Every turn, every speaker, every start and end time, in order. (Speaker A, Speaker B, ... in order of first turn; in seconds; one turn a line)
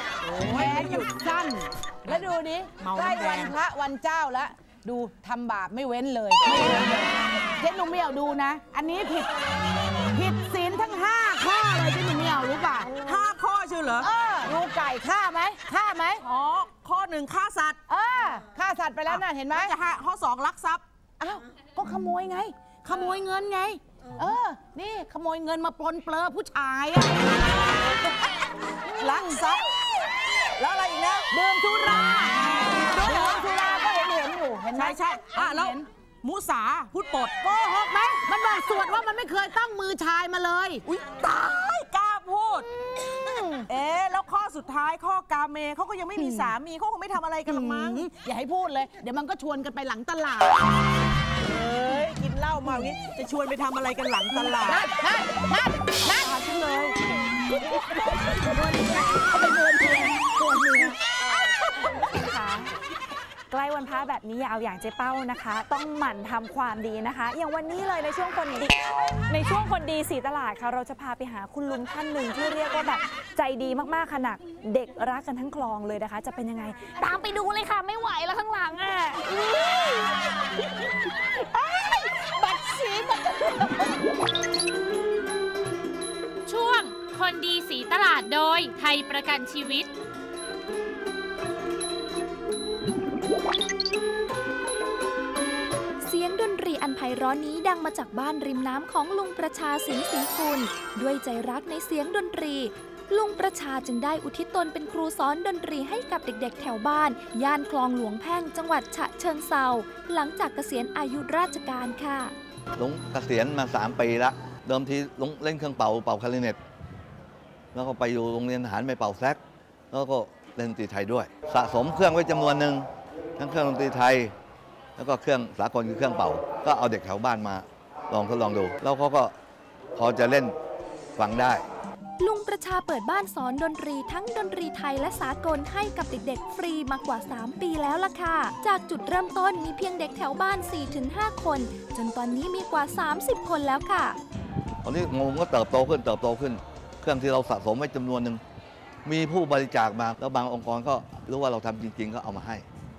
Speaker A: 0.3-7.1
Speaker B: 0.4-1.0
Speaker B: 2.8-3.5
Speaker A: 7.6-9.3
Speaker A: 10.1-16.8
Speaker B: 13.5-14.1
Speaker B: 16.8-17.6
Speaker A: 17.6-27.9
Speaker B: 19.1-19.7
Speaker A: 28.9-29.7
Speaker B: 29.0-29.4
Speaker B: 30.6-31.0
Speaker A: 30.8-35.9
Speaker B: 32.9-33.4
Speaker B: 34.8-35.7
Speaker B: 36.2-37.4
Speaker A: 37.2-40.9
Speaker B: 41.0-42.6
Speaker A: 43.3-43.9
Speaker B: 43.7-48.0
Speaker A: 45.4-46.6
Speaker A: 47.5-50.6
Speaker B: 51.5-54.8
Speaker A: 52.7-52.9
Speaker A: 54.3-56.4
Speaker C: 56.2-57.0
Speaker A: 58.6-61.0
Speaker C: 61.8-62.7
Speaker C: 63.5-79.3
Speaker A: 81.6-83.5
Speaker D: 86.5-89.9
Speaker E: 96.0-112.3
Speaker F: 112.8-116.6
Speaker F: 117.7-119.4
Speaker F: 119.9-122.9
Speaker F: 123.4-124.3
Speaker F: 125.0-129.3
Speaker F: 130.0-130.5
Speaker F: 131.2-131.6
Speaker E: 132.2-144.2
Speaker F: 144.8-148.4
Speaker F: 149.1-152.7